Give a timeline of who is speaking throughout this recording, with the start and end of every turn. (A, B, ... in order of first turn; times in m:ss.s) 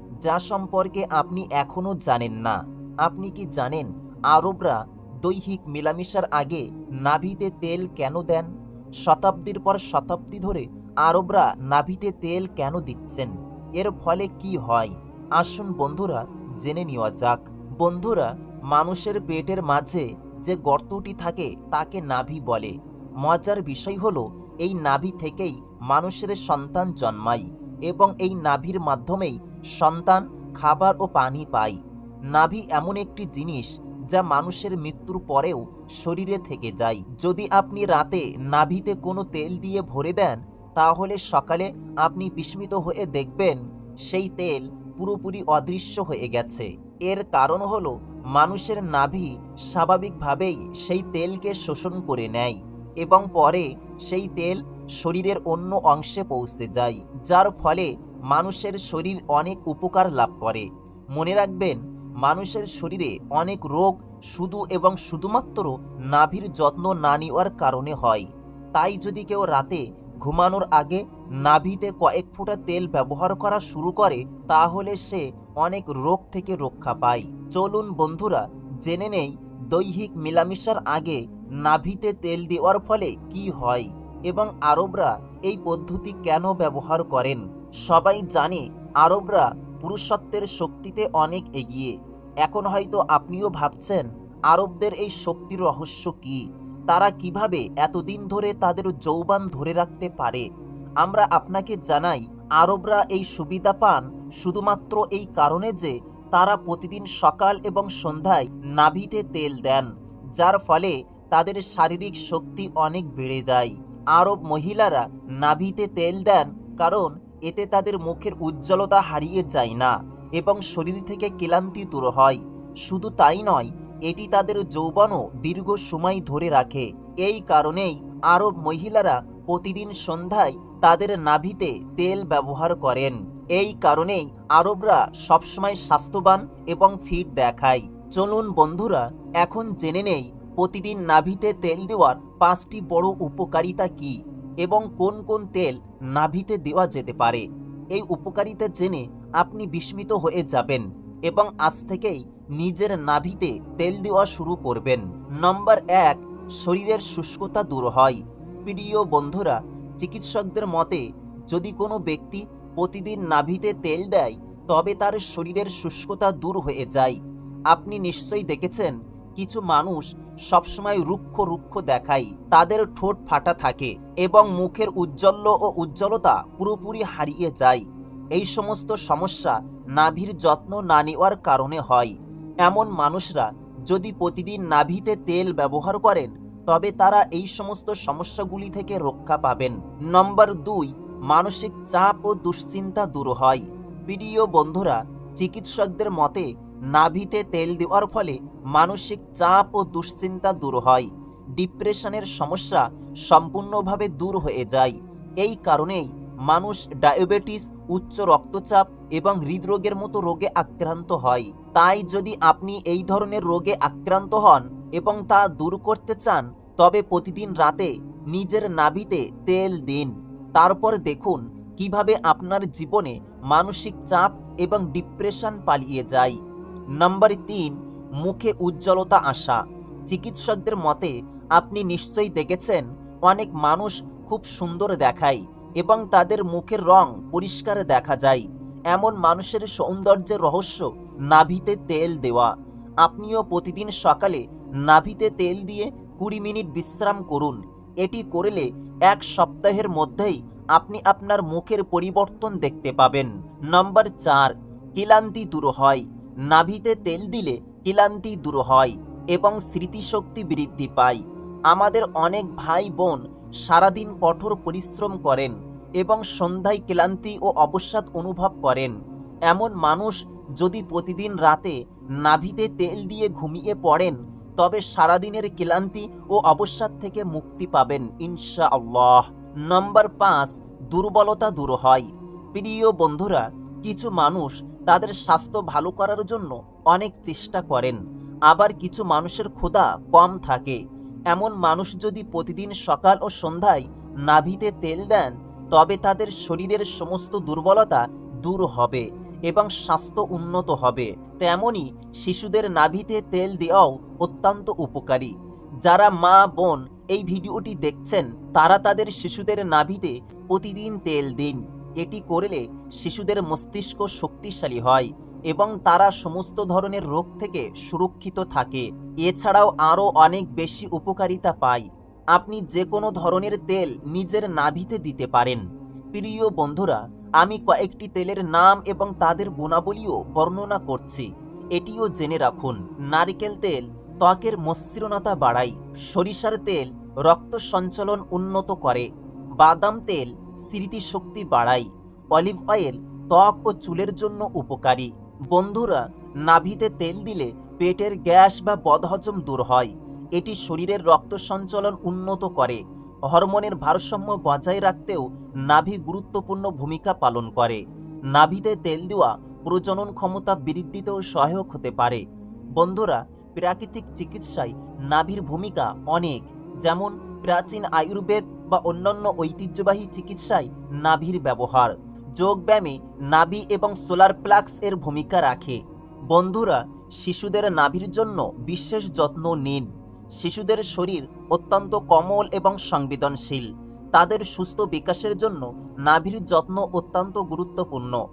0:00.2-0:08.5 A
0:09.0-0:22.7 A
0:23.2-0:31.8 A
0:32.3-1:31.9 A
1:32.4-1:40.5 A
1:41.0-2:27.4 A
2:28.0-2:47.2 A
2:47.7-2:57.8 A
2:58.4-3:02.1 A
3:02.7-3:46.4 A
3:47.0-4:02.5 A
4:03.0-4:29.0 A
4:29.5-4:50.8 A
4:51.3-5:05.3 A
5:05.8-5:25.6 A
5:26.1-5:39.1 A
5:39.6-5:57.8 A
5:58.3-6:02.2 A
6:02.8-6:15.8 A
6:16.3-6:19.9 A
6:20.4-6:28.2 A